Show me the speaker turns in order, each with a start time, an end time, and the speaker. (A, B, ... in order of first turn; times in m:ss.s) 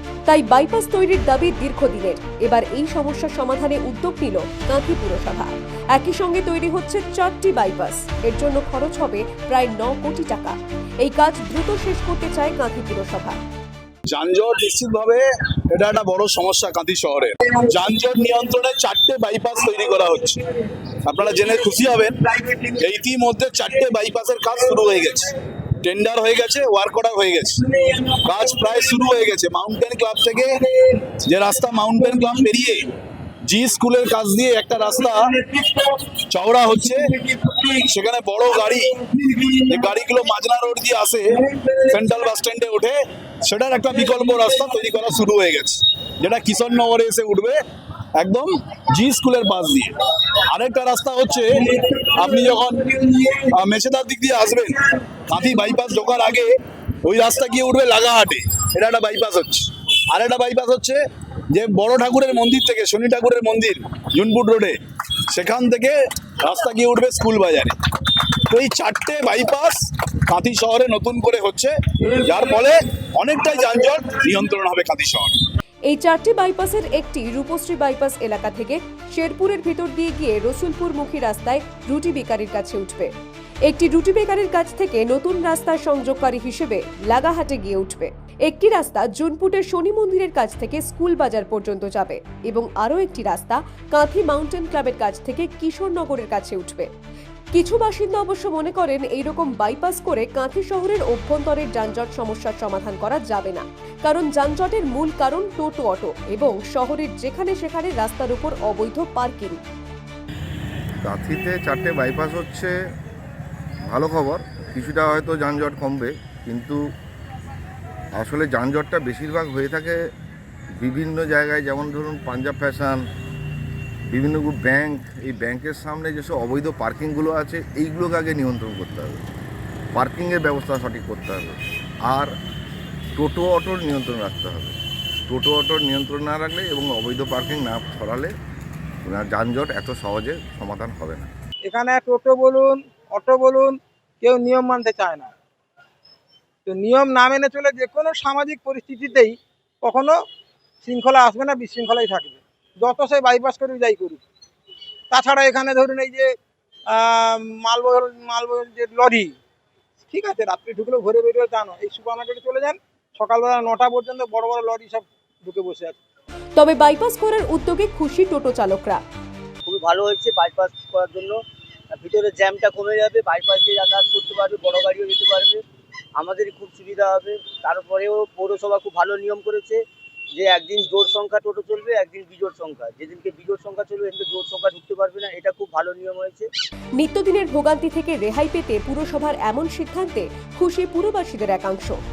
0:00.3-0:13.4 A
0:14.1-0:20.4 B
0:21.0-0:32.9 B
0:33.4-0:47.6 B
0:48.2-0:56.5 B
0:57.0-1:01.0 B
1:01.5-1:04.8 B
1:05.3-1:15.4 B
1:15.9-1:23.1 A
1:23.6-1:36.9 A
1:37.5-1:49.6 A
1:51.0-1:52.7 C
1:53.9-1:56.8 C
1:58.2-2:00.0 C
2:00.8-2:03.0 C
2:04.1-2:09.2 C
2:09.9-2:12.3 C
2:13.2-2:14.7 C
2:15.2-2:18.3 C
2:19.0-2:21.3 C
2:21.6-2:25.3 D
2:26.6-2:30.2 D
2:30.8-2:34.2 D
2:35.1-2:36.3 D
2:36.9-2:39.3 D
2:40.1-2:46.0 D
2:46.6-2:49.0 A
2:49.6-2:51.4 E
2:51.9-2:55.6 E
2:56.2-2:59.8 E
3:00.3-3:06.5 E
3:07.0-3:12.0 A